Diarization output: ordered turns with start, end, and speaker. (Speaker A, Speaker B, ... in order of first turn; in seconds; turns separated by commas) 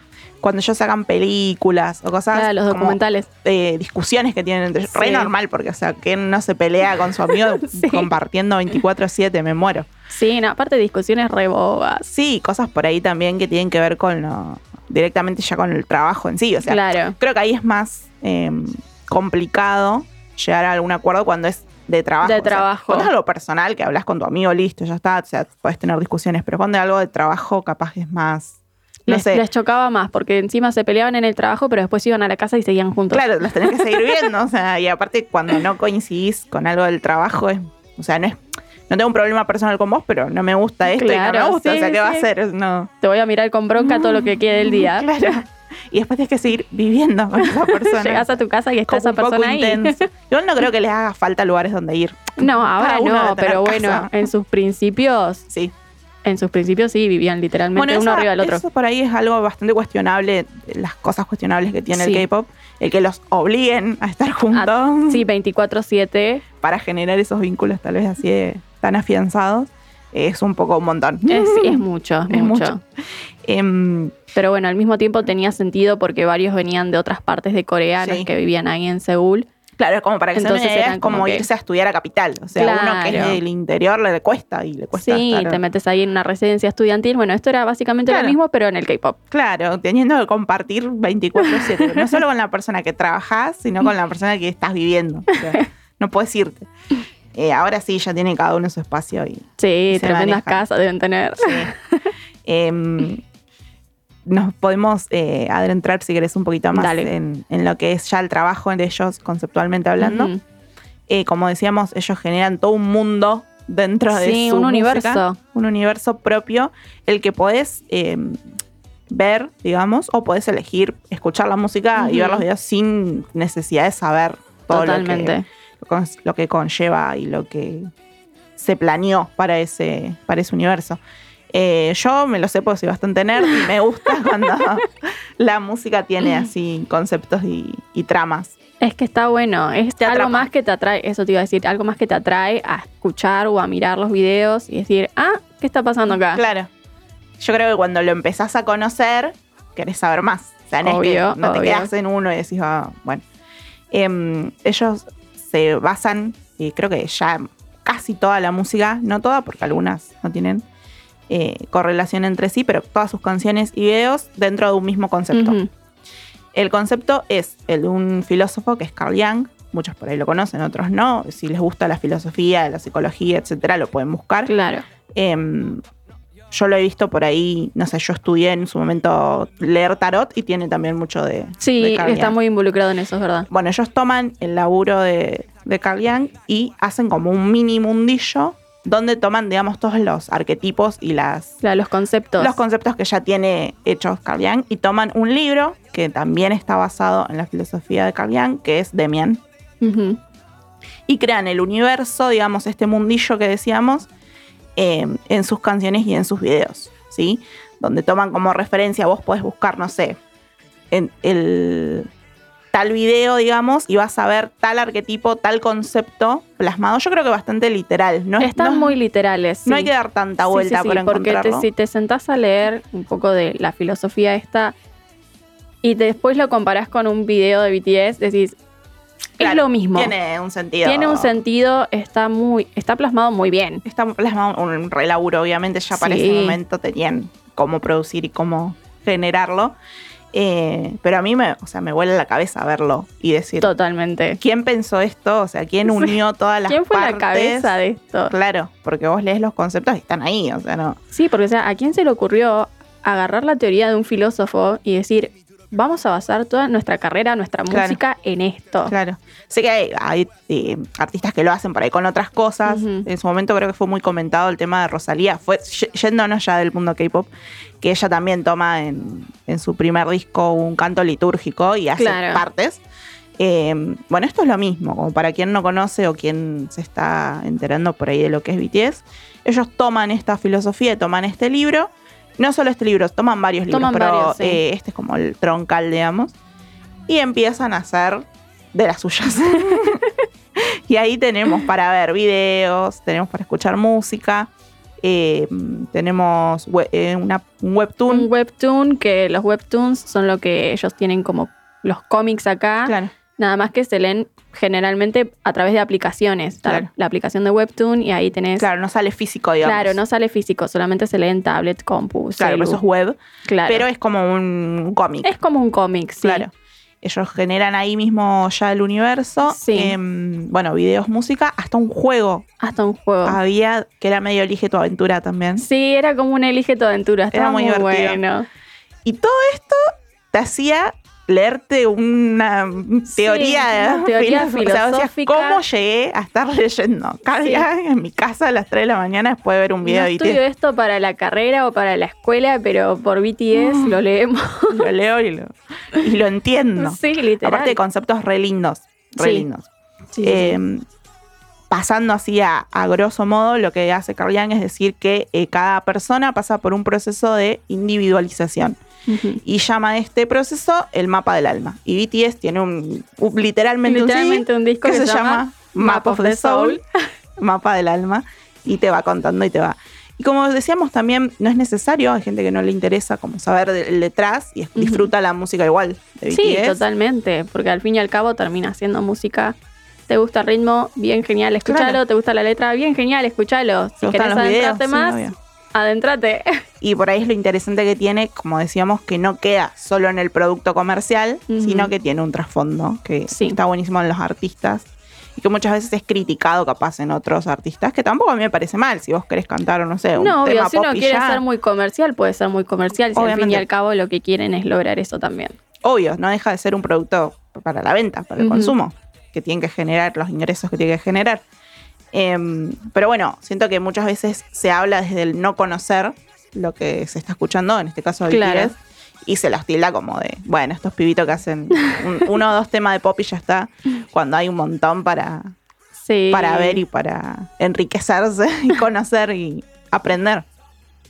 Speaker A: 0.4-9.9, Speaker B: 2.3-3.3, Speaker B: 4.9-5.3, Speaker B: 7.3-8.1, Speaker B: 10.1-12.1, Speaker A: 12.1-29.4, Speaker B: 16.6-17.2, Speaker B: 22.2-23.1, Speaker B: 29.1-34.2, Speaker A: 33.1-42.9, Speaker B: 40.9-42.3, Speaker B: 43.0-45.4, Speaker A: 43.8-54.3, Speaker B: 47.4-50.1, Speaker B: 52.4-55.5, Speaker B: 56.2-58.6, Speaker A: 57.7-65.2, Speaker B: 61.9-62.3, Speaker B: 64.5-66.4, Speaker A: 66.6-72.8, Speaker B: 71.3-72.8, Speaker A: 73.4-74.2, Speaker B: 74.3-79.5, Speaker A: 78.0-78.3, Speaker A: 79.8-85.6, Speaker B: 80.3-81.5, Speaker B: 82.5-83.4, Speaker B: 84.9-89.2, Speaker A: 88.0-88.4, Speaker A: 89.3-96.7, Speaker B: 91.4-92.2, Speaker B: 95.3-95.6, Speaker A: 97.3-100.6, Speaker B: 99.6-102.1, Speaker A: 101.4-101.7, Speaker A: 102.4-103.2, Speaker A: 104.2-110.3, Speaker B: 106.7-107.1, Speaker B: 110.0-110.4, Speaker A: 111.1-118.4, Speaker B: 114.1-115.4, Speaker A: 119.1-127.9, Speaker B: 122.0-122.5, Speaker B: 124.7-125.5, Speaker A: 128.6-131.0, Speaker A: 131.5-138.5, Speaker B: 134.3-134.6, Speaker B: 138.8-146.4, Speaker A: 140.0-140.5, Speaker A: 146.1-146.7, Speaker A: 147.4-153.2, Speaker B: 150.8-151.9, Speaker A: 153.9-160.6, Speaker A: 161.3-165.6, Speaker B: 165.3-165.7, Speaker A: 166.5-174.5, Speaker B: 174.4-174.8, Speaker A: 175.1-175.8, Speaker A: 176.5-182.3, Speaker B: 181.6-183.5, Speaker A: 183.5-191.5, Speaker B: 191.6-192.6, Speaker A: 192.4-199.4, Speaker B: 199.8-200.2, Speaker A: 201.1-204.1, Speaker A: 204.8-210.2, Speaker A: 210.9-212.1, Speaker A: 212.7-219.0, Speaker B: 218.4-219.9, Speaker A: 219.7-221.7, Speaker B: 220.4-224.8, Speaker B: 225.8-228.6, Speaker B: 229.4-230.1, Speaker A: 229.4-231.4, Speaker B: 230.8-233.8, Speaker A: 233.8-239.8, Speaker B: 235.9-236.6, Speaker A: 240.3-243.7, Speaker B: 243.6-244.4, Speaker A: 244.4-251.0, Speaker B: 245.8-248.3, Speaker B: 251.1-258.9, Speaker A: 257.7-258.0, Speaker A: 258.9-267.3, Speaker B: 262.6-263.1, Speaker A: 267.8-272.8, Speaker B: 271.9-272.4, Speaker A: 273.4-286.3, Speaker B: 283.7-284.6, Speaker A: 287.1-290.0, Speaker A: 290.6-294.5, Speaker A: 295.0-298.3, Speaker B: 298.1-308.7, Speaker A: 302.8-303.1, Speaker A: 308.6-310.0, Speaker B: 309.6-312.8, Speaker A: 312.4-315.3, Speaker B: 313.4-313.9, Speaker B: 315.2-316.4, Speaker A: 316.2-322.5, Speaker B: 319.4-320.0, Speaker B: 322.6-323.4, Speaker A: 323.2-325.6, Speaker B: 325.6-328.5, Speaker A: 327.3-328.2, Speaker A: 329.0-340.4, Speaker B: 333.1-335.6, Speaker B: 337.4-337.7, Speaker B: 339.8-344.9, Speaker A: 343.5-344.0, Speaker A: 344.7-349.7, Speaker B: 346.8-347.8, Speaker B: 349.2-349.4, Speaker B: 350.1-350.6, Speaker A: 350.2-350.8, Speaker A: 351.7-358.8, Speaker B: 359.1-359.4, Speaker A: 359.4-366.8, Speaker B: 363.8-366.8, Speaker A: 367.4-376.8, Speaker B: 374.8-375.1, Speaker B: 376.3-379.6, Speaker B: 380.1-386.6, Speaker A: 381.6-382.0, Speaker A: 384.0-385.3, Speaker A: 386.8-401.4, Speaker B: 391.5-391.9, Speaker B: 393.3-393.6, Speaker B: 400.1-405.5, Speaker A: 403.1-403.6, Speaker A: 405.8-411.4, Speaker B: 408.4-408.8, Speaker A: 412.1-425.5, Speaker B: 418.3-418.7, Speaker B: 426.0-426.8, Speaker A: 426.3-430.4